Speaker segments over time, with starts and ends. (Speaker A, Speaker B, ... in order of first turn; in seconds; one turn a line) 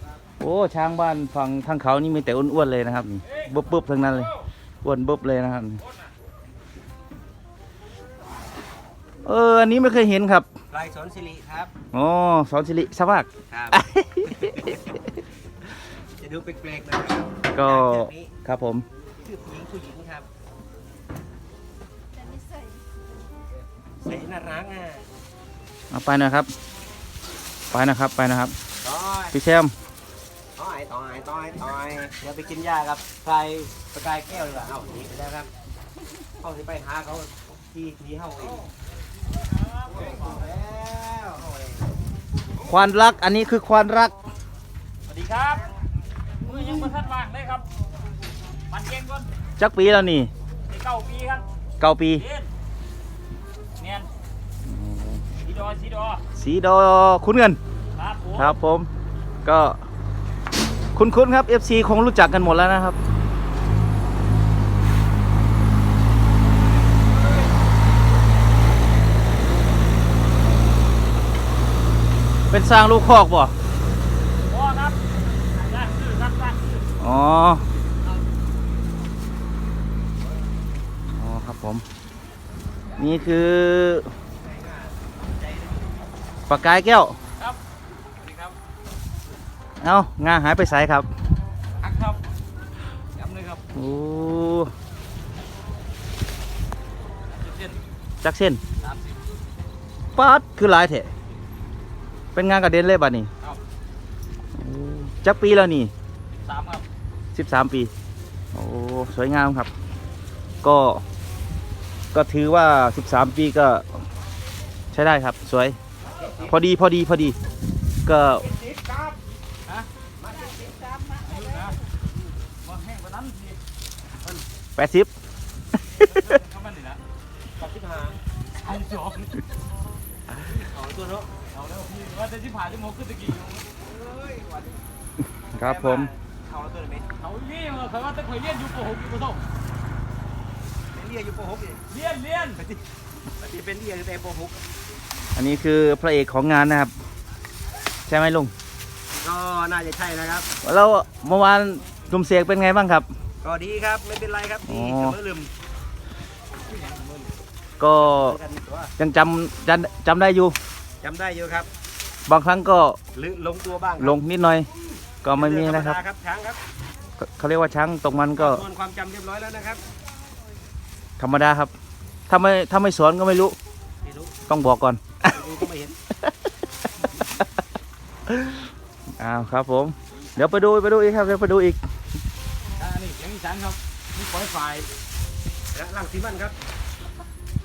Speaker A: 0.4-5.8
Speaker A: 9.2-10.5
Speaker B: 10.7-11.7
Speaker A: 11.9-14.4
Speaker B: 13.5-14.8
Speaker B: 16.2-18.3
Speaker A: 17.5-18.9
Speaker B: 19.2-20.3
Speaker B: 24.0-25.0
Speaker A: 25.9-26.5
Speaker A: 27.7-28.6
Speaker B: 28.8-29.4
Speaker A: 29.3-29.7
Speaker B: 30.6-35.5
Speaker B: 36.4-38.7
Speaker B: 40.0-41.8
Speaker A: 42.7-44.1
Speaker C: 45.1-45.6
Speaker C: 46.4-47.6
Speaker C: 48.7-49.3
Speaker A: 49.6-50.3
Speaker C: 50.7-51.4
Speaker A: 51.8-52.3
Speaker C: 53.8-54.1
Speaker A: 54.6-55.2
Speaker C: 55.4-56.2
Speaker A: 56.4-57.6
Speaker C: 58.0-58.5
Speaker A: 58.3-58.9
Speaker A: 59.5-59.8
Speaker A: 61.0-63.0
Speaker A: 72.5-73.5
Speaker C: 74.5-75.0
Speaker C: 75.6-76.8
Speaker A: 77.0-77.7
Speaker A: 81.2-81.8
Speaker A: 83.0-84.1
Speaker B: 84.4-85.9
Speaker A: 86.5-87.2
Speaker C: 88.2-88.5
Speaker A: 89.8-91.1
Speaker C: 91.8-92.2
Speaker C: 93.2-93.6
Speaker A: 93.8-94.7
Speaker C: 97.4-97.8
Speaker A: 98.2-98.6
Speaker C: 98.8-99.2
Speaker A: 100.2-101.1
Speaker A: 102.3-103.3
Speaker A: 104.5-105.9
Speaker C: 106.3-106.8
Speaker A: 107.3-107.9
Speaker A: 108.5-109.7
Speaker A: 110.6-111.0
Speaker A: 112.1-114.0
Speaker A: 114.9-115.8
Speaker A: 116.4-117.4
Speaker A: 118.1-118.5
Speaker B: 118.6-119.1
Speaker B: 120.2-121.2
Speaker C: 121.2-121.8
Speaker C: 122.6-123.6
Speaker A: 124.8-125.1
Speaker C: 126.0-127.0
Speaker B: 127.6-128.2
Speaker C: 128.6-129.3
Speaker B: 130.4-131.3
Speaker C: 131.5-133.7
Speaker B: 133.8-134.8
Speaker A: 135.6-136.1
Speaker B: 135.6-137.1
Speaker C: 137.2-139.4
Speaker B: 140.9-141.8
Speaker C: 141.9-142.6
Speaker B: 142.6-142.8
Speaker B: 143.4-144.6
Speaker A: 145.3-146.9
Speaker A: 148.1-148.5
Speaker B: 149.2-150.5
Speaker A: 150.6-153.1
Speaker B: 153.4-155.5
Speaker A: 154.7-155.2
Speaker A: 157.8-158.4
Speaker B: 158.0-158.9
Speaker A: 159.0-160.6
Speaker B: 161.0-161.7
Speaker A: 162.3-163.0
Speaker B: 163.1-164.2
Speaker A: 164.0-164.7
Speaker A: 165.2-166.0
Speaker B: 165.3-166.6
Speaker A: 167.2-168.6
Speaker B: 168.3-169.8
Speaker A: 171.2-171.7
Speaker A: 172.3-173.6
Speaker B: 174.0-174.3
Speaker A: 174.5-175.2
Speaker B: 175.2-176.0
Speaker A: 178.3-178.7
Speaker A: 179.2-181.8
Speaker C: 182.8-184.9
Speaker B: 185.7-186.6